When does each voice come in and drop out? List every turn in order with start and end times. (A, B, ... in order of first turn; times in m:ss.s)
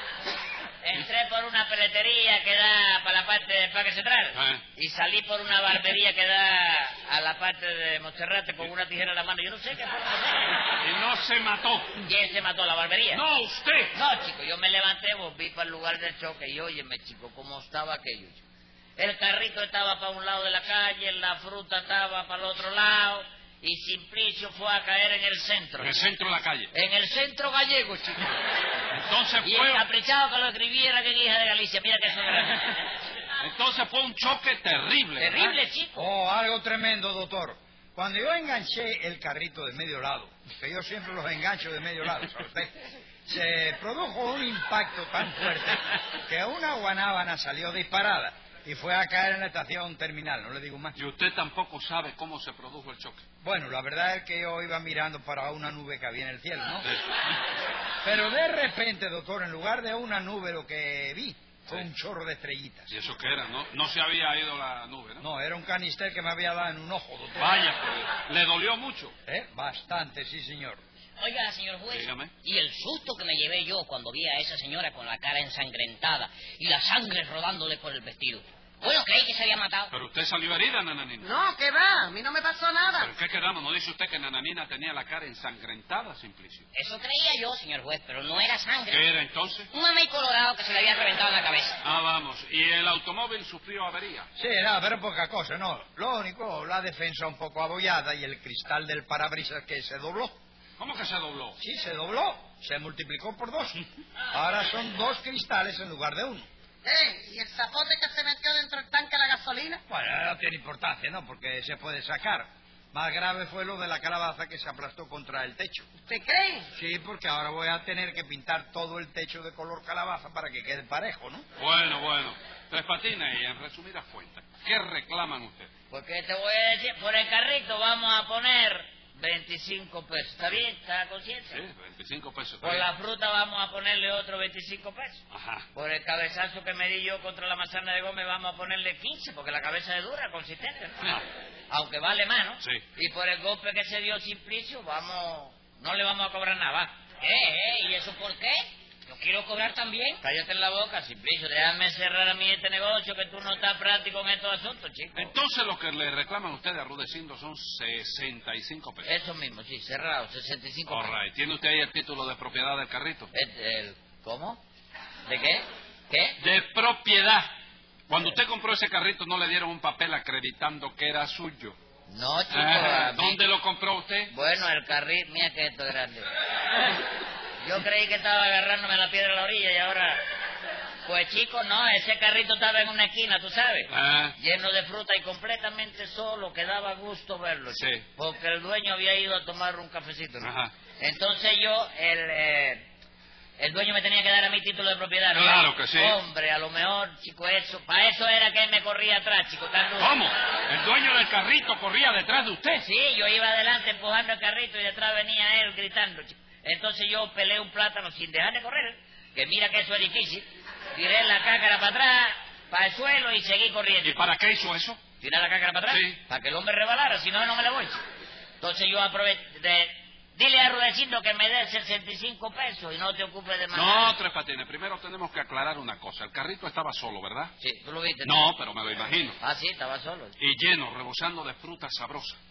0:00.8-0:10.6 A
0:04.3-0:04.6 B
0:10.7-0:12.1 B
0:12.0-0:13.2 A
0:13.1-0:14.0 B
0:13.9-0:18.4 A
0:19.0-0:26.0 A
0:25.8-0:26.7 B
0:26.7-0:28.4 A
0:28.9-0:29.8 B
0:29.4-0:32.8 A
0:33.4-0:35.5 B
0:35.2-0:36.1 A
0:36.0-0:51.0 C
0:51.0-0:53.2 B
0:53.4-0:56.9 C
0:56.8-0:57.1 B
0:58.0-1:02.9 C
1:02.9-1:05.3 B
1:05.2-1:07.5 C
1:07.4-1:09.1 B
1:09.3-1:10.8 C
1:11.2-1:19.9 D
1:11.9-1:12.3 B
1:19.9-1:21.3 B
1:21.2-1:23.1 E
1:23.0-1:26.7 B
1:26.7-1:29.0 D
1:28.9-1:29.7 B
1:29.7-1:31.8 D
1:31.8-1:34.3 B
1:34.4-1:40.4 C
1:40.8-1:41.6 B
1:41.6-1:46.5 C
1:46.8-1:49.8 E
1:49.9-1:55.9 C
1:56.0-1:56.7 E
1:56.7-2:01.4 C
2:01.6-2:05.7 B
2:05.9-2:11.6 A
2:11.5-2:12.9 B
2:12.6-2:15.2 A
2:15.3-2:15.7 B
2:15.8-2:21.2 A
2:21.7-2:26.9 A
2:27.2-2:30.2 D
2:30.2-2:35.3 A
2:35.1-2:39.1 B
2:39.0-2:41.2 A
2:40.9-2:43.3 B
2:43.3-2:44.6 A
2:45.3-2:46.4 A
2:46.4-2:47.5 B
2:48.1-2:51.8 B
2:52.1-2:53.4 A
2:52.5-2:54.3 B
2:54.3-2:56.3 A
2:57.6-3:00.2 A
3:01.0-3:12.9 A
3:03.9-3:04.4 B
3:07.7-3:08.0 B
3:10.4-3:10.7 B
3:13.6-3:20.2 A
3:15.3-3:16.2 B
3:20.0-3:22.8 B
3:22.8-3:34.3 A
3:34.0-3:35.0 B
3:35.2-3:38.0 A
3:35.9-3:36.2 B
3:38.6-3:44.2 A
3:43.7-3:47.5 B
3:47.6-3:48.5 A
3:48.2-3:49.4 B
3:49.4-3:50.4 A
3:50.4-3:52.4 B